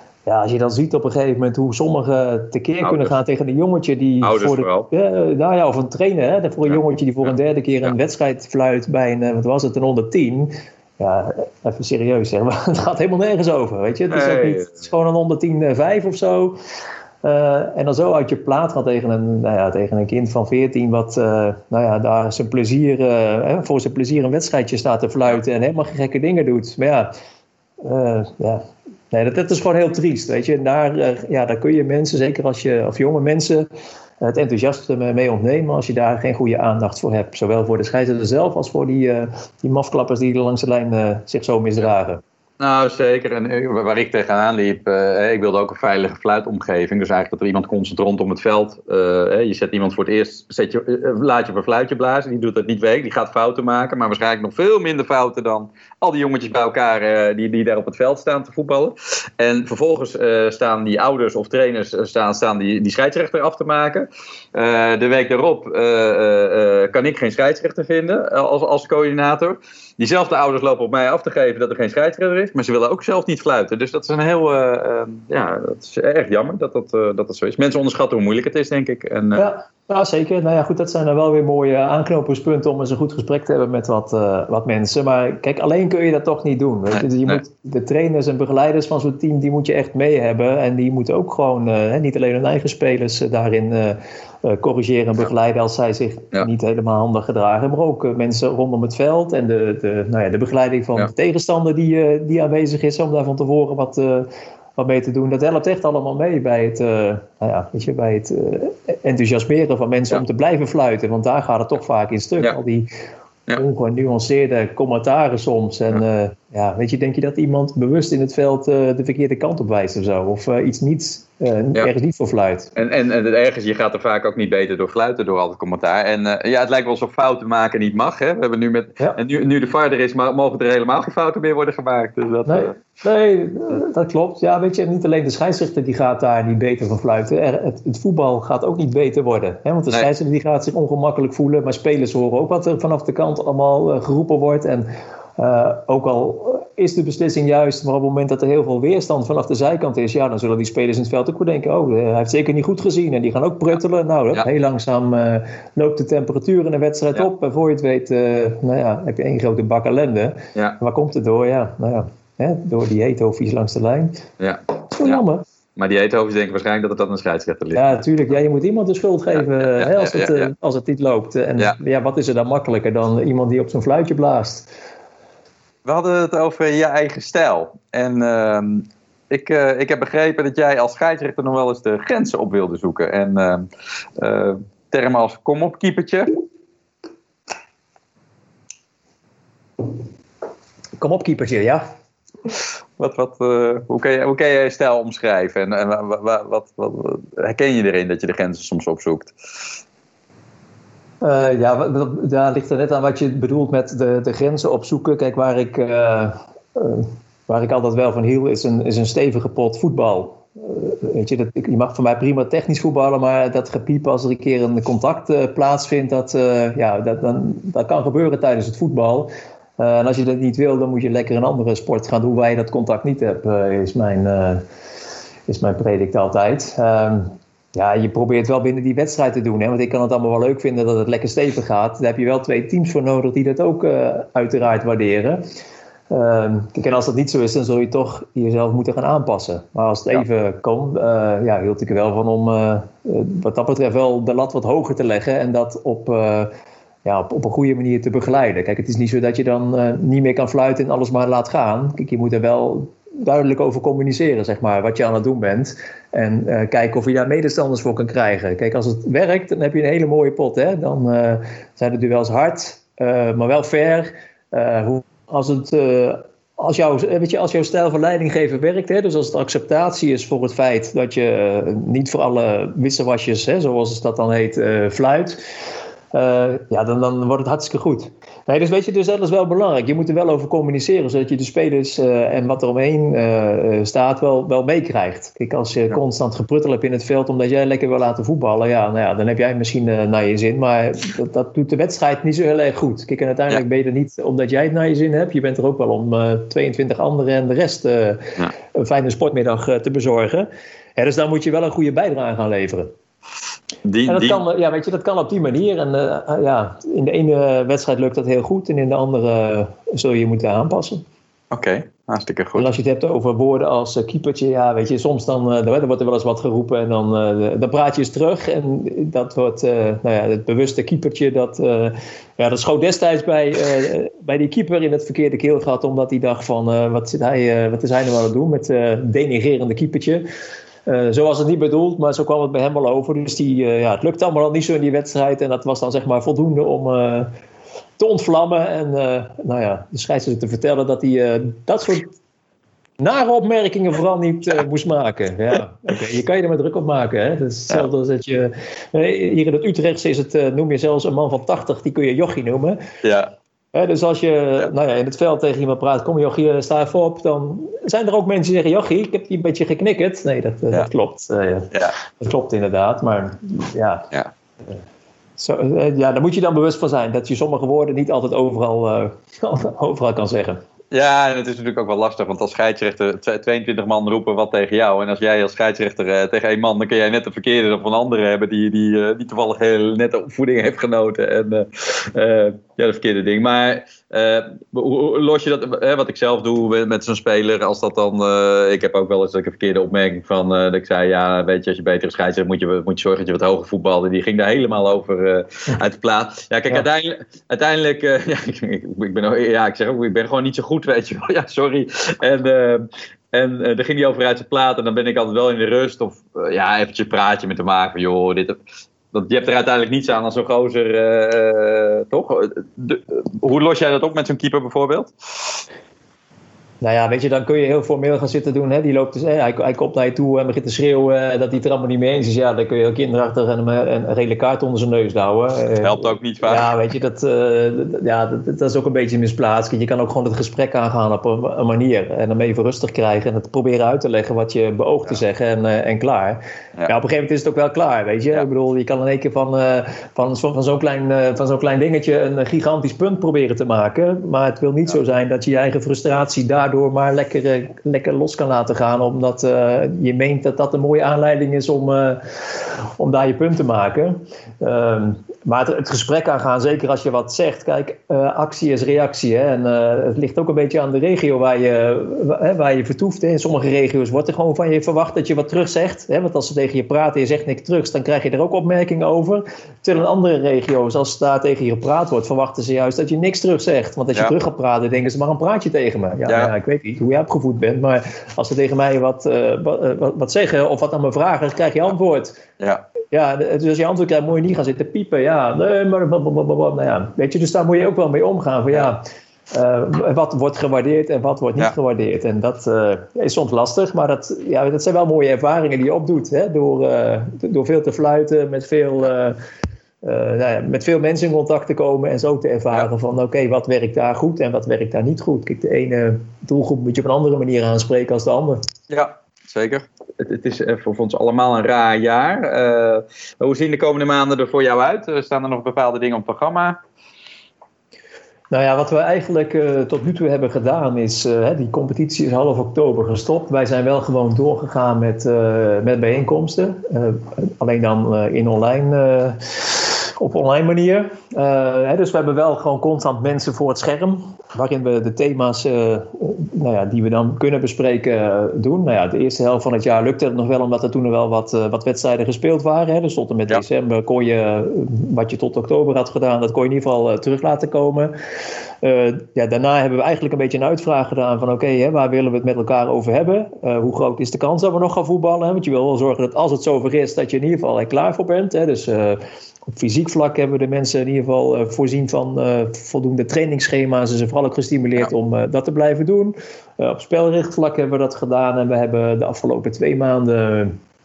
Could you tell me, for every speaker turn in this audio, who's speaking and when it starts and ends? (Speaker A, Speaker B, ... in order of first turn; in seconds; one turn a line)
Speaker A: 0.3-16.6
Speaker B: 2.8-3.1
Speaker B: 4.2-4.9
Speaker B: 14.1-14.7
Speaker A: 17.2-27.1
Speaker A: 27.8-33.7
Speaker A: 34.2-42.2
Speaker B: 42.6-79.5
Speaker A: 79.3-112.9
Speaker B: 86.9-87.4
Speaker A: 113.5-122.7
Speaker B: 122.8-132.8
Speaker A: 132.5-164.2
Speaker B: 164.4-165.2
Speaker A: 164.9-165.4
Speaker B: 165.8-167.9
Speaker A: 167.7-174.7
Speaker B: 169.6-170.5
Speaker B: 175.8-183.7
Speaker B: 184.2-186.4
Speaker A: 191.0-191.8
Speaker B: 193.0-199.3
Speaker A: 201.2-224.6
Speaker A: 225.5-235.4
Speaker A: 236.1-246.5
Speaker A: 247.1-275.4
Speaker A: 276.1-302.9
Speaker B: 303.9-304.4
Speaker A: 304.1-311.0
Speaker B: 311.5-312.7
Speaker A: 312.6-330.2
Speaker A: 330.9-337.3
Speaker A: 338.0-342.1
Speaker A: 343.0-352.8
Speaker B: 353.0-353.3
Speaker A: 353.7-364.1
Speaker A: 365.4-370.6
Speaker B: 370.9-408.6
Speaker B: 409.1-415.6
Speaker A: 416.8-452.2
Speaker B: 425.8-426.7
Speaker A: 453.0-482.4
Speaker B: 476.3-476.5
Speaker A: 483.1-499.4
Speaker A: 500.0-508.6
Speaker B: 508.9-516.8
Speaker A: 518.5-548.1
Speaker A: 548.8-570.8